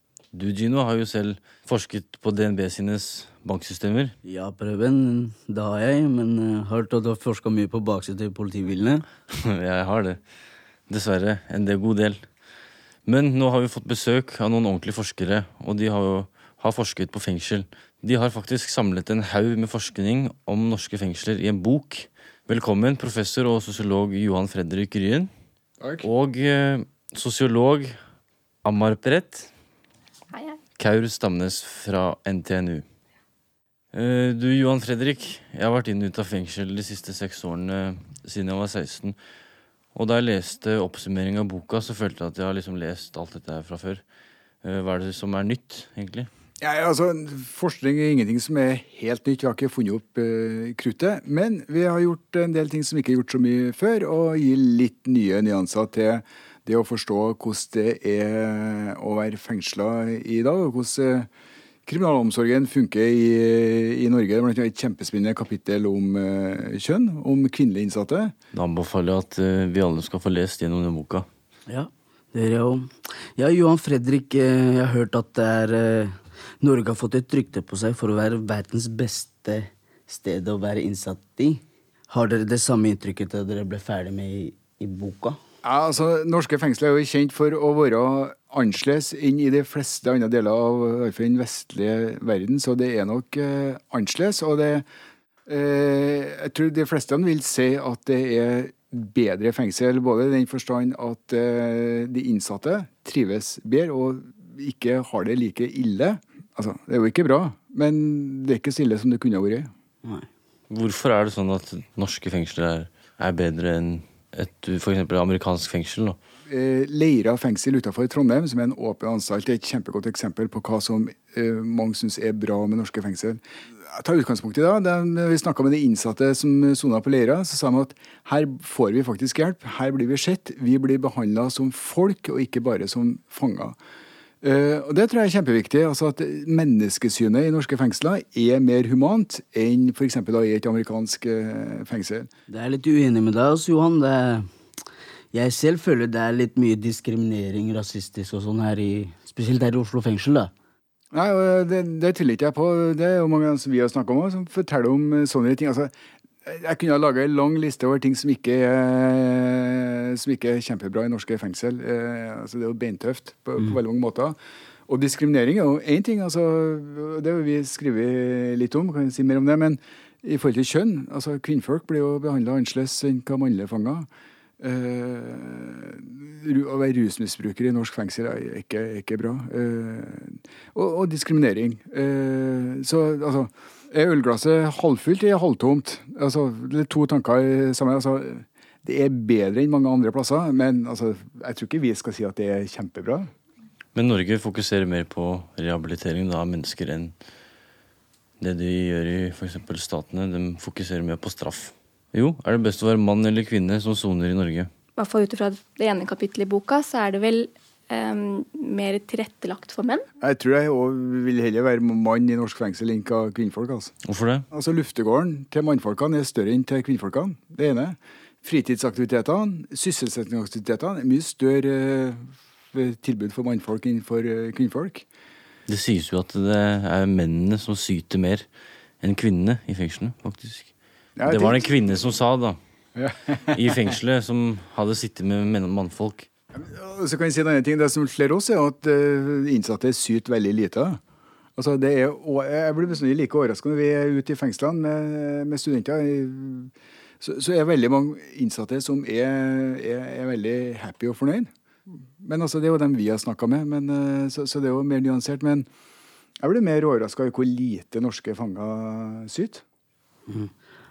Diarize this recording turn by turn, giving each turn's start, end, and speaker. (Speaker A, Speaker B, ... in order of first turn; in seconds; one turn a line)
Speaker A: 0.3-4.1
Speaker B: 4.2-9.0
Speaker A: 9.3-10.2
Speaker A: 10.9-12.2
Speaker A: 13.1-25.3
Speaker C: 25.8-26.1
Speaker A: 26.0-27.9
Speaker A: 28.6-29.5
Speaker D: 30.3-30.6
Speaker A: 30.8-32.8
Speaker A: 33.9-39.2
Speaker A: 39.9-44.0
Speaker A: 44.6-46.3
Speaker C: 46.6-61.3
Speaker C: 61.9-68.3
Speaker A: 68.5-71.2
Speaker B: 71.7-85.4
Speaker C: 85.6-94.8
Speaker C: 95.5-109.7
Speaker A: 110.7-116.2
Speaker C: 116.5-133.8
Speaker C: 134.4-142.3
Speaker B: 142.5-144.5
Speaker B: 145.3-150.5
Speaker C: 151.1-155.9
Speaker C: 156.4-164.3
Speaker C: 164.9-174.1
Speaker C: 174.6-193.3
Speaker A: 193.9-197.1
Speaker A: 198.4-204.7
Speaker D: 205.0-210.0
Speaker C: 210.2-213.9
Speaker A: 214.0-214.4
Speaker C: 214.5-225.1
Speaker A: 225.7-228.5
Speaker A: 229.0-230.7
Speaker C: 231.2-231.6
Speaker A: 231.2-232.6
Speaker C: 232.9-233.6
Speaker A: 233.5-236.3
Speaker C: 236.5-241.0
Speaker C: 241.6-251.5
Speaker C: 252.2-255.7
Speaker C: 256.4-259.6